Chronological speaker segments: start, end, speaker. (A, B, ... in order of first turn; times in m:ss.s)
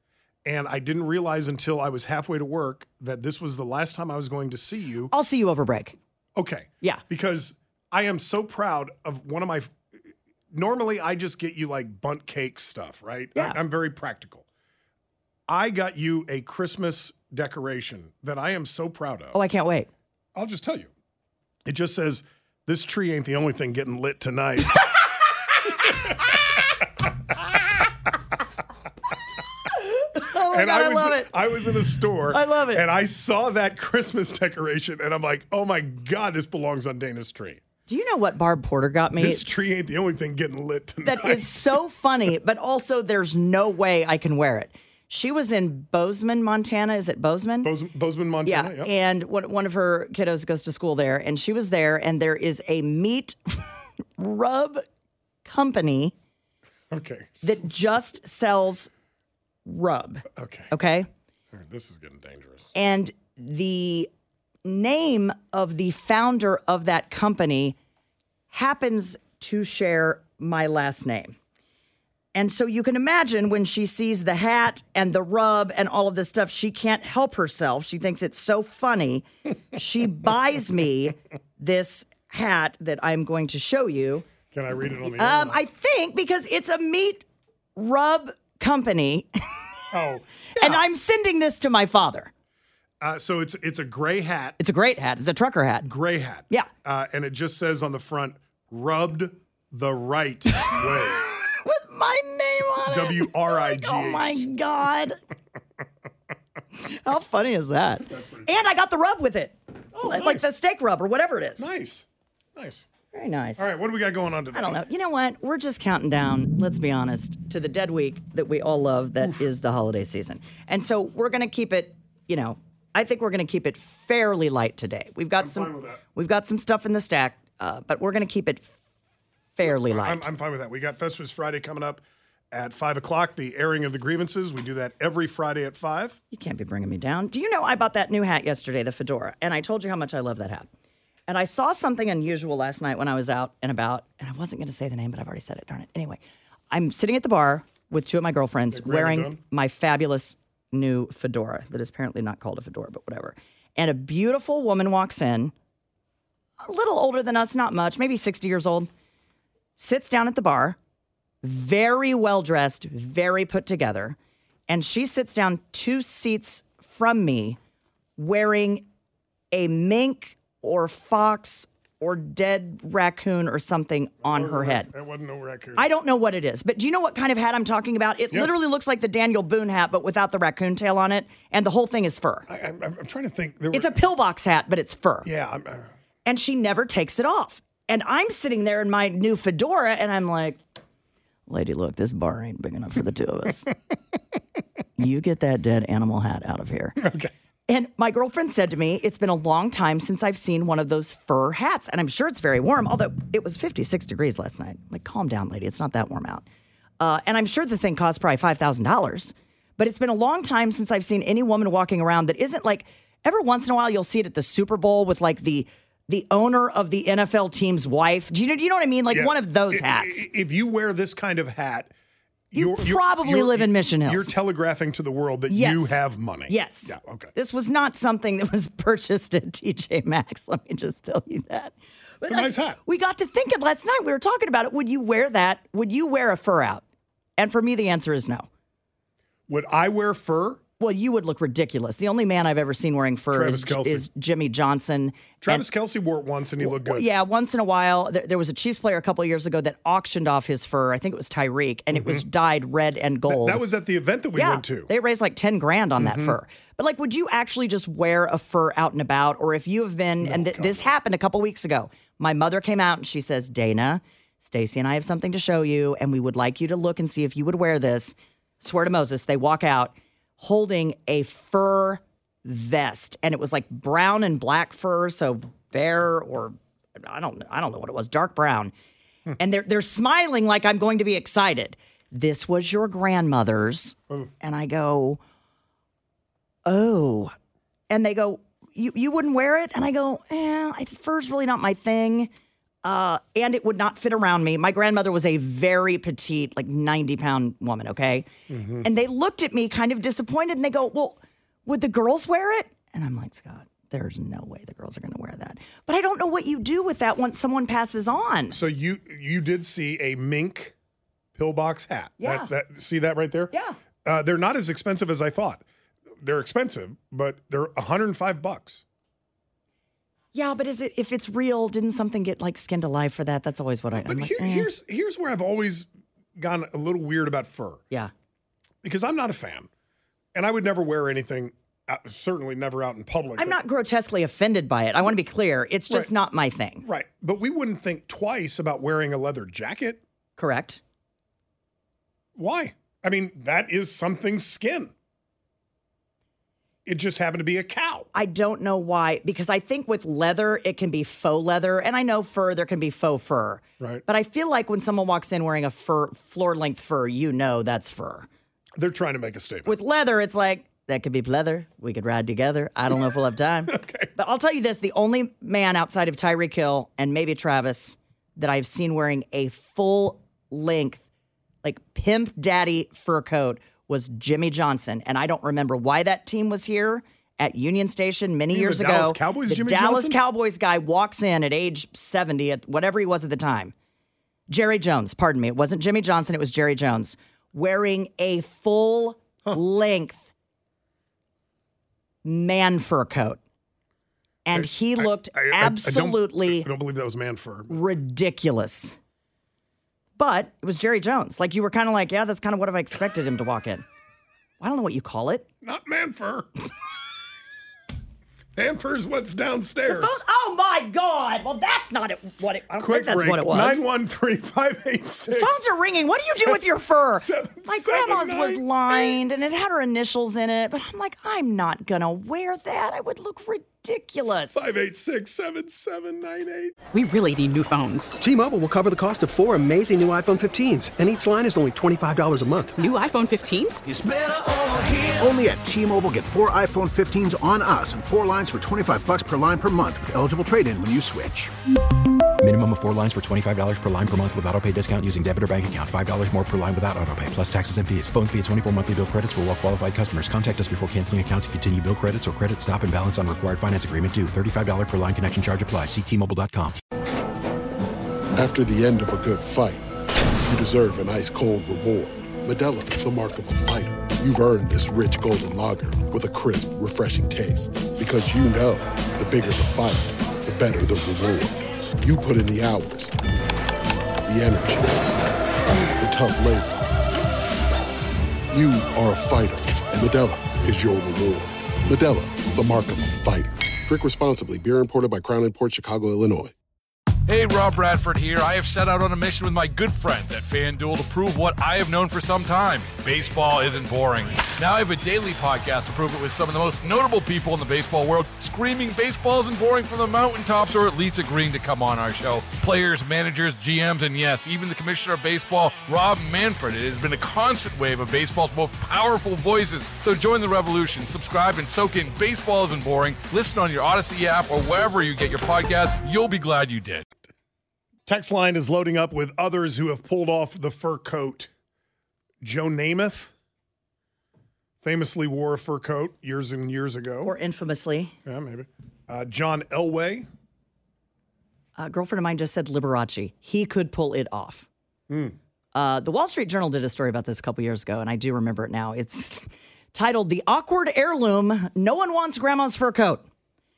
0:00.4-0:05.1 A
0:05.1-0:06.0 B
0:06.4-0:09.8 A
0:10.5-0:14.5 A
0:15.5-0:19.4 A
0:19.3-0:19.9 B
0:20.4-0:20.9 A
0:21.6-0:24.9 A
0:25.9-0:26.4 A
0:30.0-0:31.3 B
0:30.5-0:37.6 A
0:32.3-0:32.8 B
0:37.9-0:39.5 B
0:39.2-0:41.7 A
0:41.0-0:47.7 B
0:47.6-0:48.9 A
0:48.4-0:53.6 B
0:54.2-0:54.8 B
0:55.4-0:56.1 B
0:56.9-0:57.7 A
0:57.4-0:58.9 B
0:59.7-1:01.1 B
1:00.3-1:00.7 A
1:01.5-1:02.7 A
1:02.7-1:04.1 B
1:04.6-1:07.8 B
1:08.5-1:11.4 B
1:12.4-1:24.3 B
1:24.5-1:25.6 A
1:25.1-1:27.2 B
1:27.8-1:29.3 B
1:29.9-1:30.9 A
1:30.6-1:32.3 B
1:33.0-1:34.6 A
1:34.6-1:35.9 B
1:35.8-1:41.2 A
1:40.6-1:45.2 B
1:42.9-1:44.5 A
1:46.8-1:51.7 B
1:48.1-1:48.5 A
1:49.9-1:50.5 A
1:51.6-1:52.9 A
1:53.1-1:53.7 B
1:53.6-1:54.8 A
1:54.5-2:08.7 B
2:05.4-2:06.0 A
2:09.6-2:10.3 B
2:09.6-2:16.2 A
2:16.3-2:20.7 B
2:21.3-2:26.2 B
2:26.7-2:35.5 B
2:28.7-2:29.4 A
2:36.6-2:38.9 B
2:39.8-2:40.8 B
2:41.4-2:44.2 B
2:44.7-2:47.6 B
2:48.2-2:48.8 B
2:49.5-2:54.9 B
2:54.2-2:55.9 A
2:55.8-3:02.5 B
2:58.3-2:58.6 A
3:02.5-3:04.0 A
3:03.7-3:05.3 B
3:05.2-3:05.9 A
3:06.2-3:10.6 B
3:11.5-3:13.7 B
3:15.0-3:17.1 B
3:17.0-3:17.3 A
3:17.7-3:26.4 B
3:27.0-3:40.3 B
3:39.1-3:41.9 A
3:42.5-3:47.3 A
3:42.5-3:44.3 B
3:45.5-3:56.8 B
3:52.2-3:52.8 A
3:57.4-3:58.5 B
3:59.5-4:00.6 A
4:00.8-4:05.7 B
4:03.3-4:04.1 A
4:05.4-4:07.1 A
4:06.6-4:13.6 B
4:11.9-4:12.2 A
4:13.3-4:14.9 A
4:14.4-4:38.7 B
4:16.0-4:16.4 A
4:20.2-4:20.9 A
4:39.4-4:45.2 B
4:46.6-4:47.3 B
4:47.9-4:52.3 B
4:52.8-4:58.3 B
4:58.5-4:58.9 A
4:58.8-5:08.6 B
5:08.5-5:10.7 A
5:11.4-5:13.5 A
5:12.2-5:12.5 B
5:13.5-5:13.8 B
5:14.0-5:15.6 A
5:16.2-5:18.8 A
5:20.3-5:24.7 B
5:23.9-5:27.8 A
5:28.8-5:29.7 A
5:30.3-5:33.6 A
5:33.4-5:36.8 B
5:36.8-5:40.0 A
5:40.4-5:40.8 B
5:42.4-5:44.9 A
5:46.9-5:48.1 A
5:48.1-5:58.3 B
5:58.8-5:59.8 A
5:59.7-6:11.1 B
6:03.7-6:04.1 A
6:11.6-6:23.7 B
6:18.5-6:20.2 A
6:24.5-6:30.3 B
6:32.2-6:33.4 B
6:34.4-6:36.7 B
6:34.5-6:37.8 A
6:37.7-6:39.0 B
6:40.2-6:43.8 B
6:44.6-6:45.5 B
6:45.6-6:46.5 A
6:48.6-6:50.2 A
6:49.9-6:53.8 B
6:52.7-6:55.7 A
6:55.3-7:04.7 B
6:57.2-6:59.2 A
7:04.5-7:06.8 A
7:06.9-7:08.2 C
7:08.2-7:12.8 D
7:12.8-7:13.8 C
7:13.9-7:21.5 E
7:22.4-7:36.8 F
7:38.4-7:39.9 G
7:40.4-7:53.2 G
7:54.2-7:55.2 G
7:55.7-7:57.0 G
7:58.5-8:06.5 G
8:07.3-8:37.0 H
8:38.1-8:41.5 A
8:42.4-8:43.3 A
8:44.8-8:47.4 A
8:47.2-8:48.2 B
8:48.2-8:50.3 A
8:51.8-8:54.7 B
8:55.1-8:55.4 A
8:55.7-9:03.3 B